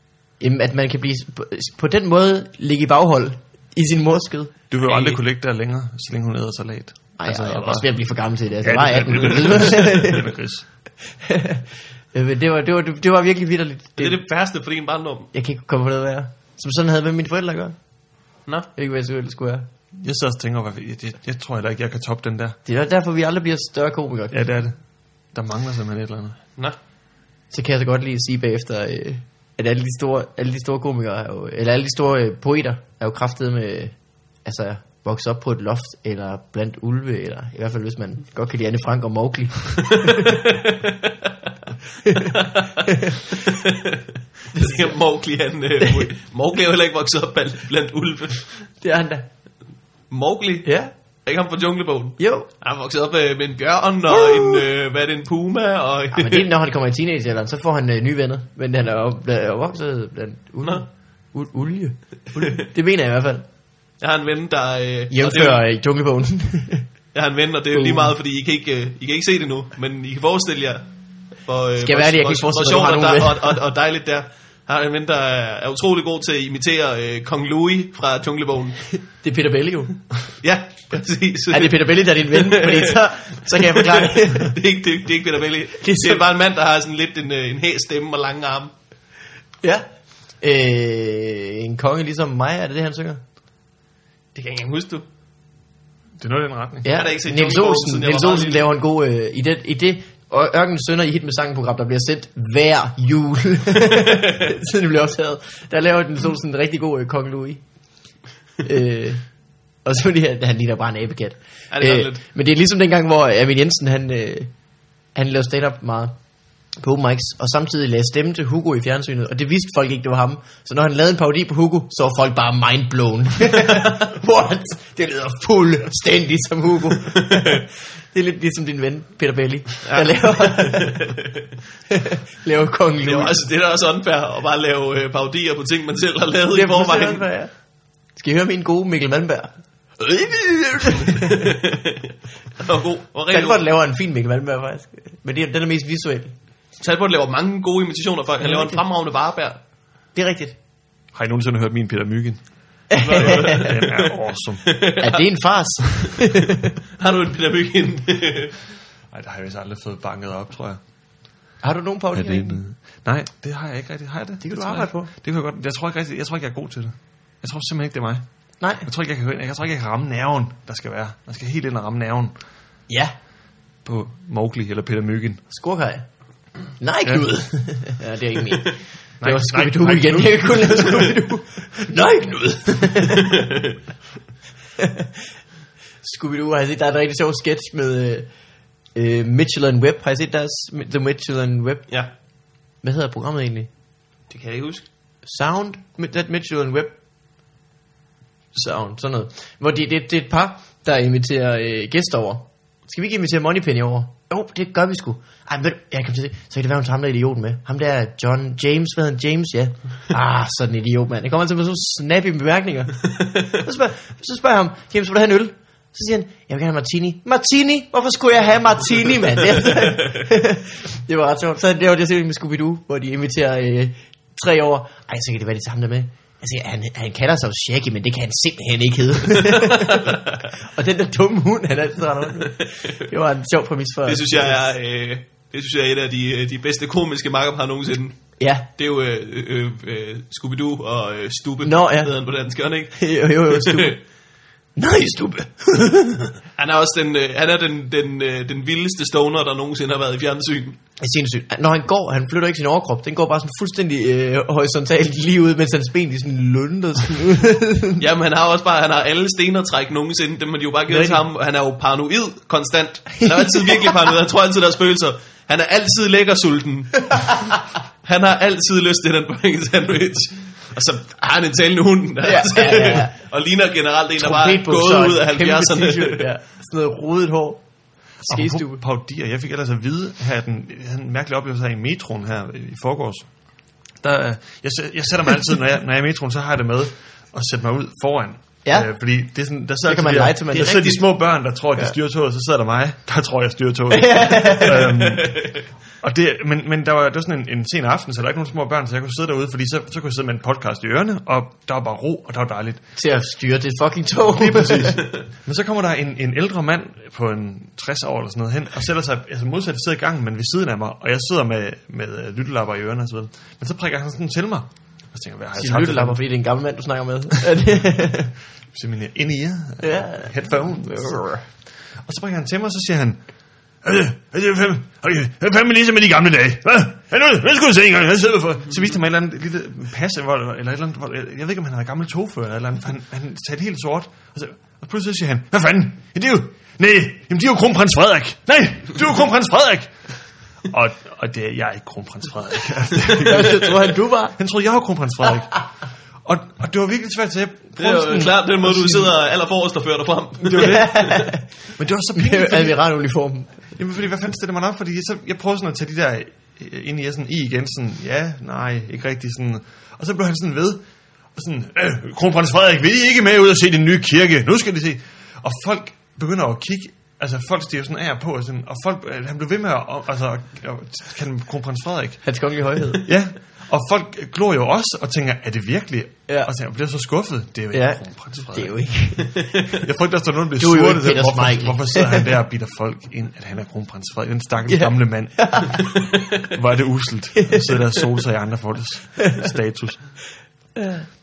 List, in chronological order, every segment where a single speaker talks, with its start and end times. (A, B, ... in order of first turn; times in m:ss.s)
0:00.4-0:04.5 A
0:04.7-0:07.9 B
0:04.8-0:05.2 C
0:07.2-0:10.3 A
0:08.6-0:10.7 B
0:11.2-0:14.2 A
0:14.0-0:15.3 C
0:15.3-0:17.8 A
0:18.8-0:19.7 A
0:20.0-0:22.6 B
0:22.7-0:24.4 A
0:24.3-0:24.8 B
0:25.3-0:26.4 B
0:27.5-0:33.9 A
0:34.4-0:40.5 A
0:40.0-0:41.1 C
0:42.0-0:43.2 A
0:42.2-0:48.7 C
0:44.5-0:45.0 A
0:45.8-0:46.1 A
0:48.8-0:49.2 A
0:50.1-0:50.7 C
0:50.6-0:50.9 A
0:51.2-0:56.5 C
0:52.2-0:52.5 A
0:54.1-0:54.6 A
0:56.1-1:03.4 A
1:02.4-1:02.6 C
1:04.0-1:05.6 C
1:05.1-1:06.9 A
1:07.1-1:10.9 C
1:07.7-1:08.2 A
1:11.4-1:18.8 C
1:11.8-1:13.6 A
1:19.2-1:20.0 A
1:20.4-1:28.7 C
1:21.5-1:24.6 A
1:25.8-1:26.3 A
1:30.4-1:33.2 A
1:34.4-1:35.0 C
1:36.2-1:36.9 B
1:36.8-1:47.6 A
1:36.9-1:38.7 C
1:48.6-1:49.2 A
1:49.8-1:54.5 A
1:51.7-1:52.2 C
1:55.2-1:56.1 A
1:56.8-2:11.1 A
2:09.8-2:11.4 C
2:11.9-2:13.4 A
2:13.0-2:17.2 C
2:16.5-2:17.5 A
2:18.2-2:21.6 A
2:21.0-2:23.6 C
2:23.3-2:26.3 A
2:26.8-2:29.6 C
2:28.4-2:28.8 A
2:30.2-2:30.6 A
2:31.1-2:32.4 B
2:32.9-2:33.8 A
2:33.0-2:35.2 C
2:33.1-2:34.7 B
2:35.0-2:36.7 A
2:36.0-2:36.3 C
2:37.0-2:38.6 C
2:39.1-2:40.8 B
2:41.6-2:42.6 A
2:42.1-2:48.2 B
2:44.4-2:45.1 A
2:48.6-2:48.9 A
2:48.8-2:52.4 B
2:52.9-2:53.2 A
2:53.8-2:55.4 B
2:55.5-2:56.0 A
2:56.8-3:03.5 A
2:59.2-3:01.2 B
3:03.4-3:03.7 C
3:04.8-3:05.1 A
3:06.0-3:08.3 A
3:09.0-3:11.9 A
3:12.8-3:13.7 A
3:14.3-3:14.8 C
3:15.2-3:16.9 A
3:18.6-3:54.6 A
3:39.6-3:40.2 C
3:49.4-3:50.2 C
3:54.1-3:58.2 C
3:58.4-3:58.7 A
3:58.8-4:04.0 C
4:01.6-4:02.1 A
4:03.0-4:04.0 A
4:04.8-4:06.3 A
4:06.6-4:10.8 C
4:11.0-4:18.0 A
4:18.0-4:36.3 C
4:20.9-4:21.2 A
4:23.2-4:23.9 A
4:32.2-4:33.2 A
4:34.2-4:37.6 A
4:38.2-4:43.3 B
4:38.2-4:38.8 A
4:44.0-5:02.8 B
4:49.9-4:51.0 A
4:53.9-4:54.9 A
4:55.1-4:55.6 C
5:03.0-5:05.1 A
5:04.3-5:16.2 B
5:15.6-5:18.3 A
5:18.7-5:21.2 B
5:19.8-5:21.5 A
5:22.0-5:23.2 B
5:23.8-5:39.9 B
5:40.6-5:45.7 B
5:43.1-5:44.4 A
5:46.2-5:49.1 B
5:47.8-5:51.2 C
5:50.4-5:50.9 B
5:50.6-5:51.5 A
5:51.8-5:52.8 B
5:52.2-5:53.6 A
5:53.8-6:00.8 B
6:01.4-6:12.2 B
6:12.2-6:13.1 A
6:13.0-6:18.7 B
6:17.7-6:19.8 A
6:19.8-6:30.1 B
6:20.6-6:22.3 A
6:24.7-6:26.0 A
6:27.4-6:27.7 A
6:30.8-6:31.0 A